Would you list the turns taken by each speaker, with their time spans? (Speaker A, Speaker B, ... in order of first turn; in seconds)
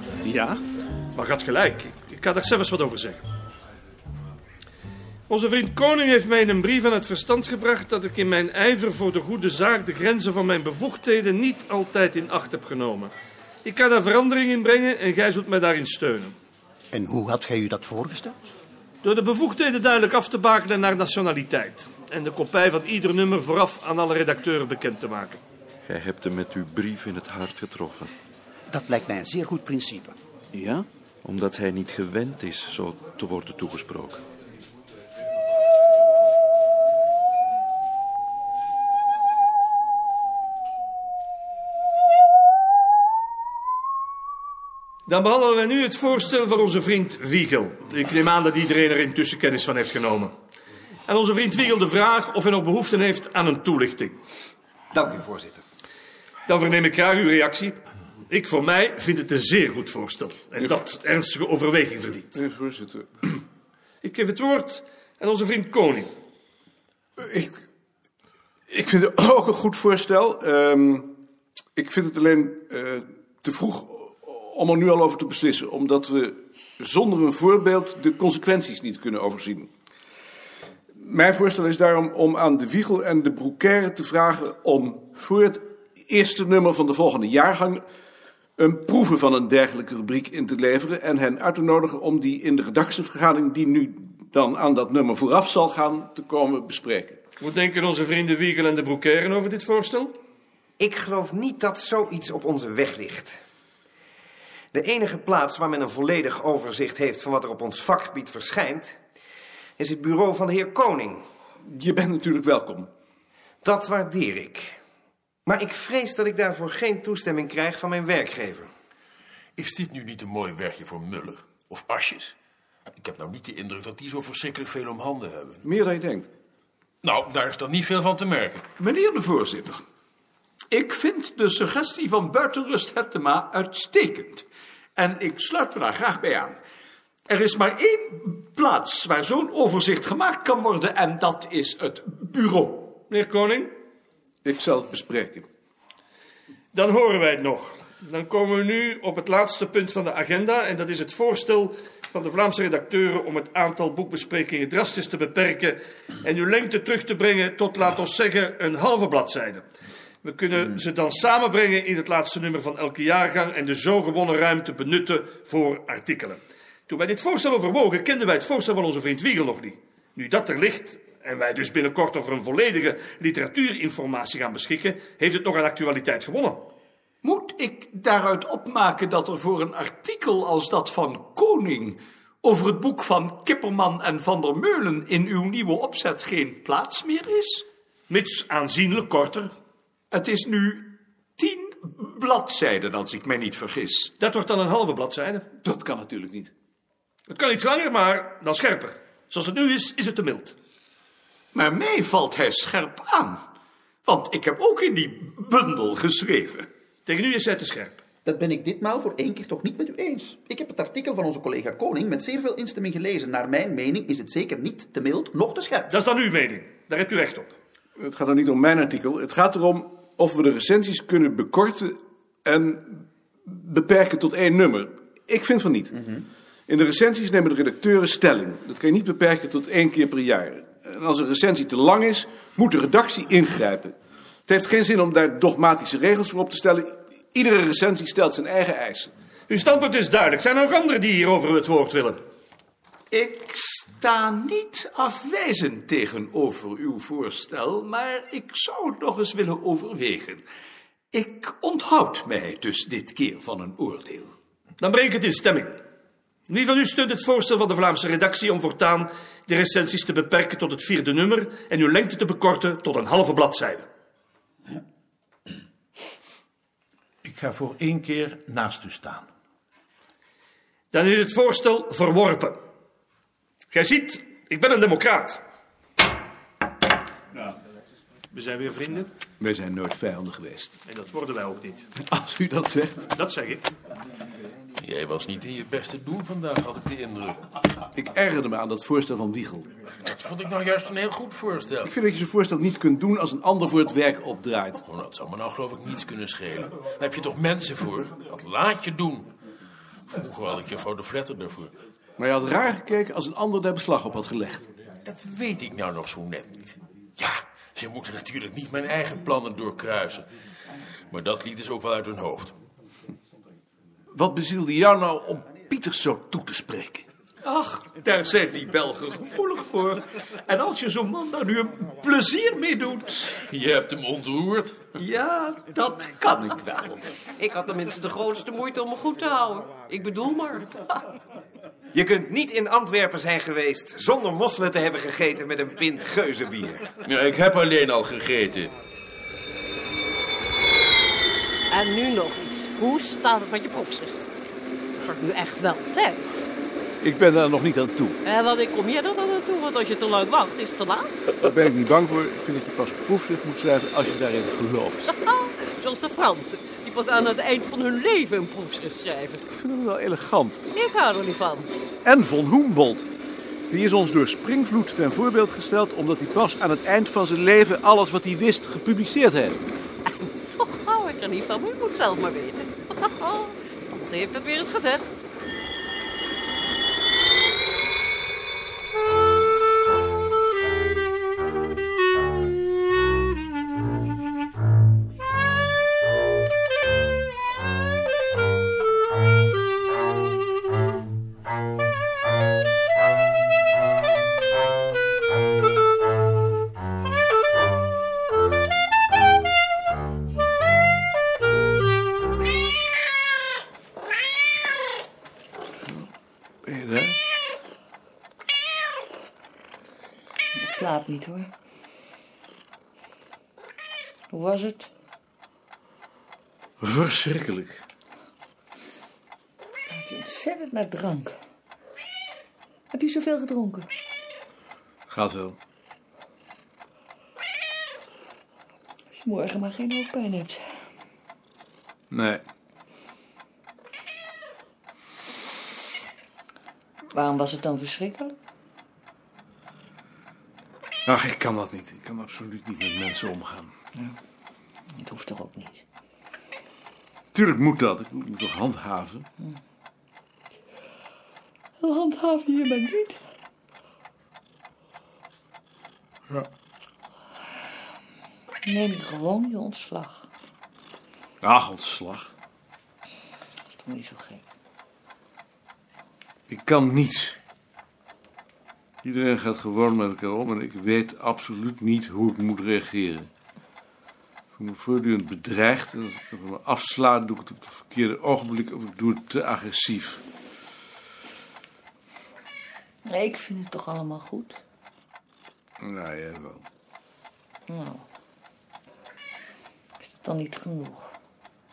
Speaker A: 1.1-3.2, 5.3-13.1, 13.7-16.3, 19.0-25.4, 45.1-50.3, 51.1-54.1, 56.5-57.8, 58.3-62.3, 64.0-66.1, 97.4-100.1, 143.1-143.7, 146.7-159.6, 160.2-176.7, 188.1-189.5, 194.2-195.4, 197.3-200.6, 207.1-208.0, 215.9-217.5, 239.5-242.2, 254.8-255.7, 256.5-263.8, 270.9-272.6, 273.7-275.4, 278.3-279.1, 280.9-281.9, 283.1-283.6
Speaker B: 16.9-18.4, 28.7-30.8
Speaker C: 25.9-28.1, 31.2-34.2
Speaker D: 62.4-63.2, 67.2-67.5, 68.7-71.1, 71.8-79.7, 81.0-87.8, 88.6-97.2, 111.6-112.9, 125.6-126.3, 144.4-145.5, 195.6-196.5, 218.0-225.9, 226.7-233.9, 234.5-239.1, 279.4-280.8, 282.0-283.1, 288.0-289.7, 291.9-294.8, 302.2-304.7, 314.1-317.1, 347.0-348.2, 351.4-355.2, 359.5-360.6, 362.0-363.1, 363.7-369.6, 406.6-407.2, 416.8-417.8, 425.1-425.6, 432.1-432.4, 441.1-443.7, 447.3-449.3, 461.4-462.3, 466.5-467.4, 469.0-473.3, 474.6-480.2, 485.8-486.6
Speaker E: 100.8-103.4, 104.7-109.0, 109.8-111.2, 113.6-114.8, 115.5-118.7, 331.9-336.9
Speaker F: 119.6-122.3, 122.9-125.6, 127.0-128.7, 284.8-287.4, 290.0-291.9, 294.8-299.3, 300.1-301.7, 305.0-310.3, 311.1-312.6, 323.4-324.8, 337.0-338.7
Speaker G: 128.8-129.8, 130.7-134.5, 135.0-136.6, 137.3-143.0, 177.2-187.7, 190.1-194.1, 201.5-203.4, 204.1-206.7, 243.1-250.4, 251.1-254.3, 317.4-323.4, 325.0-327.1
Speaker H: 208.2-216.0
Speaker I: 267.2-269.2
Speaker J: 327.4-330.7, 341.7-344.3, 345.0-346.2, 348.2-351.2, 355.2-359.4, 360.7-361.7, 370.1-375.3
Speaker K: 410.6-411.5, 414.3-414.9, 419.9-421.3, 422.9-423.9, 429.1-430.6, 437.1-438.4, 445.0-445.8, 451.8-453.2, 458.6-460.3, 463.7-464.4, 483.1-484.6, 487.7-488.0, 490.0-491.1